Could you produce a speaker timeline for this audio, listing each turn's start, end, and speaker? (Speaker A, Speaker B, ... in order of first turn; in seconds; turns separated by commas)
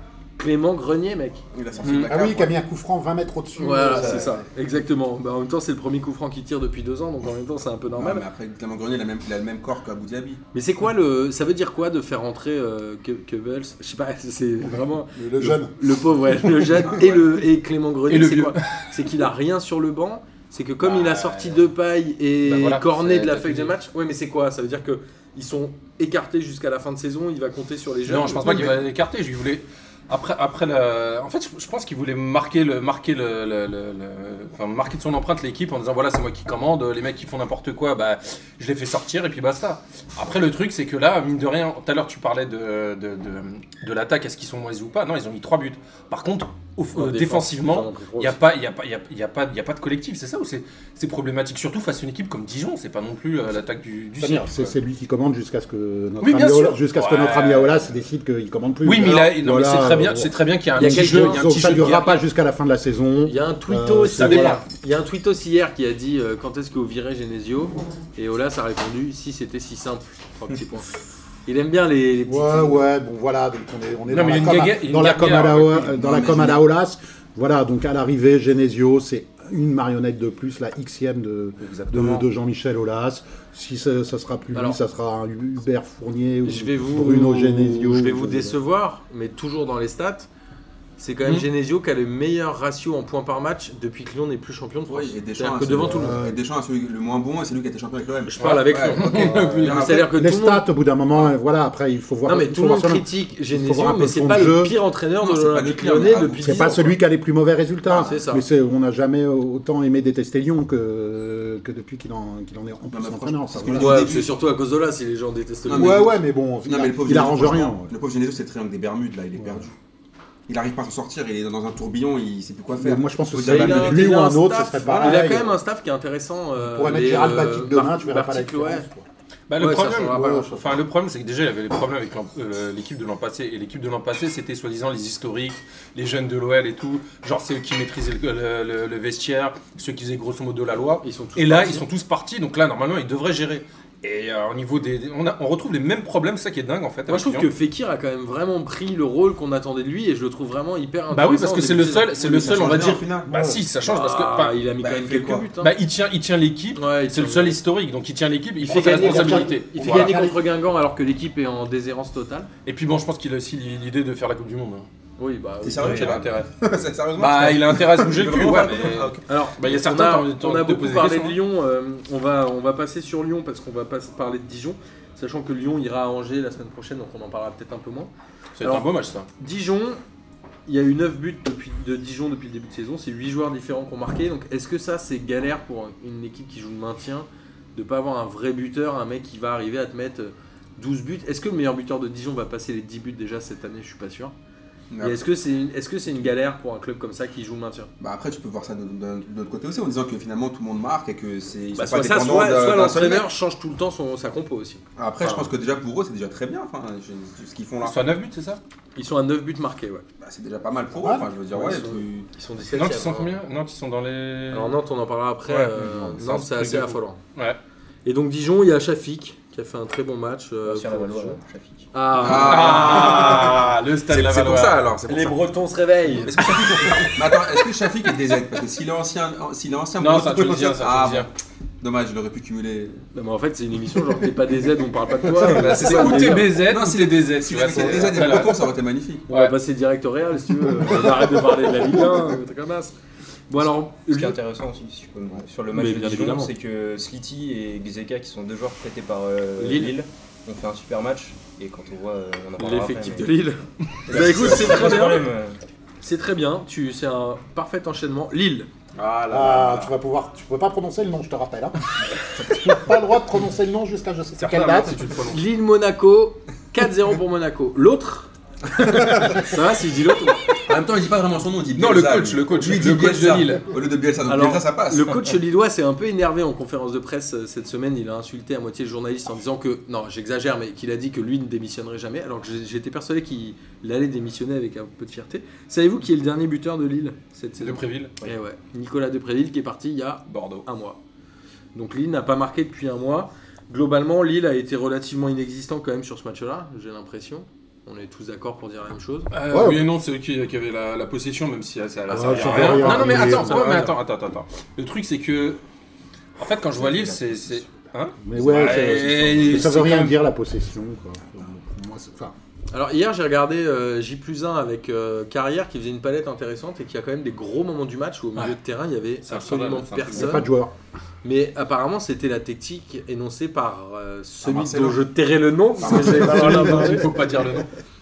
Speaker A: 0.4-1.4, Speaker B: 1.5-2.5, Speaker C: 1.8-2.1, Speaker D: 2.0-4.4, Speaker A: 3.5-8.2, Speaker B: 3.9-4.3, Speaker B: 8.0-10.4, Speaker A: 10.5-28.8, Speaker D: 15.1-15.8, Speaker B: 16.7-17.2, Speaker C: 18.1-18.9, Speaker C: 20.8-21.7, Speaker C: 22.4-23.7, Speaker C: 28.1-54.7, Speaker A: 46.9-48.4, Speaker D: 54.2-64.6, Speaker C: 56.2-57.8, Speaker C: 58.8-62.2, Speaker A: 60.8-61.5, Speaker A: 63.2-70.9, Speaker C: 64.1-64.6, Speaker A: 71.5-72.8, Speaker D: 72.2-88.6, Speaker C: 74.1-75.9, Speaker B: 75.9-76.6, Speaker C: 81.8-82.2, Speaker A: 84.5-84.8, Speaker A: 86.4-90.3, Speaker A: 91.0-96.2, Speaker B: 94.9-100.1, Speaker D: 95.8-96.4, Speaker A: 98.2-100.7, Speaker C: 98.4-99.9, Speaker D: 99.3-104.8, Speaker A: 102.2-107.0, Speaker B: 105.2-106.7, Speaker D: 106.4-114.2, Speaker B: 107.9-108.1, Speaker A: 107.9-108.4, Speaker B: 112.9-114.4, Speaker A: 113.7-116.1, Speaker B: 115.7-119.8, Speaker D: 115.7-117.9, Speaker D: 119.4-119.6, Speaker B: 120.5-124.1, Speaker D: 122.7-125.6, Speaker A: 123.4-128.9, Speaker D: 126.6-129.1, Speaker C: 129.5-147.5, Speaker A: 129.6-130.7, Speaker D: 130.1-130.4, Speaker A: 141.0-141.8, Speaker A: 147.1-152.1, Speaker C: 151.1-154.6, Speaker B: 152.1-153.3, Speaker D: 153.2-153.6, Speaker A: 153.8-155.7, Speaker B: 154.8-155.5, Speaker C: 155.6-160.1, Speaker A: 156.8-157.6, Speaker A: 158.6-162.5, Speaker D: 158.7-160.4, Speaker C: 162.6-164.9, Speaker A: 165.2-166.2, Speaker B: 165.6-169.2, Speaker C: 165.8-166.5, Speaker C: 167.2-171.4, Speaker A: 169.3-180.0, Speaker C: 178.6-179.3, Speaker A: 180.7-194.3, Speaker B: 194.9-195.2, Speaker A: 195.0-197.9, Speaker B: 198.0-203.3, Speaker A: 201.8-204.8, Speaker B: 205.0-208.1, Speaker D: 205.2-205.5, Speaker C: 207.8-208.6, Speaker A: 208.9-210.0, Speaker B: 210.2-212.3, Speaker D: 211.0-211.8, Speaker A: 211.5-213.4, Speaker C: 212.7-214.8, Speaker A: 214.5-217.2, Speaker C: 215.5-217.6, Speaker A: 218.0-221.4, Speaker E: 220.6-221.9, Speaker A: 221.9-223.2, Speaker B: 222.2-225.4, Speaker C: 222.2-224.8, Speaker A: 225.1-227.1, Speaker B: 226.2-231.3, Speaker C: 230.0-231.3, Speaker B: 231.8-233.0, Speaker A: 233.1-236.6, Speaker C: 235.4-238.7, Speaker B: 235.6-239.3, Speaker C: 239.3-239.5, Speaker A: 239.3-242.9, Speaker A: 243.5-244.4, Speaker E: 244.0-253.4, Speaker A: 245.7-246.5, Speaker A: 249.6-249.9, Speaker A: 252.6-255.3, Speaker E: 254.1-255.6, Speaker A: 256.0-258.7, Speaker C: 258.9-259.9, Speaker D: 259.3-261.8, Speaker D: 262.4-265.0, Speaker C: 264.4-265.4, Speaker A: 265.3-270.4, Speaker B: 270.6-275.2, Speaker C: 271.8-273.7, Speaker A: 274.2-291.0, Speaker C: 287.6-288.2, Speaker C: 290.3-290.6, Speaker A: 291.8-299.3, Speaker C: 299.3-305.6, Speaker D: 299.5-299.8, Speaker D: 302.1-303.8, Speaker A: 302.2-303.9, Speaker C: 306.4-310.2, Speaker B: 306.8-307.5, Speaker D: 308.2-312.3, Speaker B: 308.4-309.4, Speaker A: 312.7-320.5, Speaker C: 319.2-320.4, Speaker D: 320.1-320.7, Speaker A: 321.2-327.2, Speaker B: 324.4-325.1, Speaker B: 325.8-326.7, Speaker C: 325.9-327.7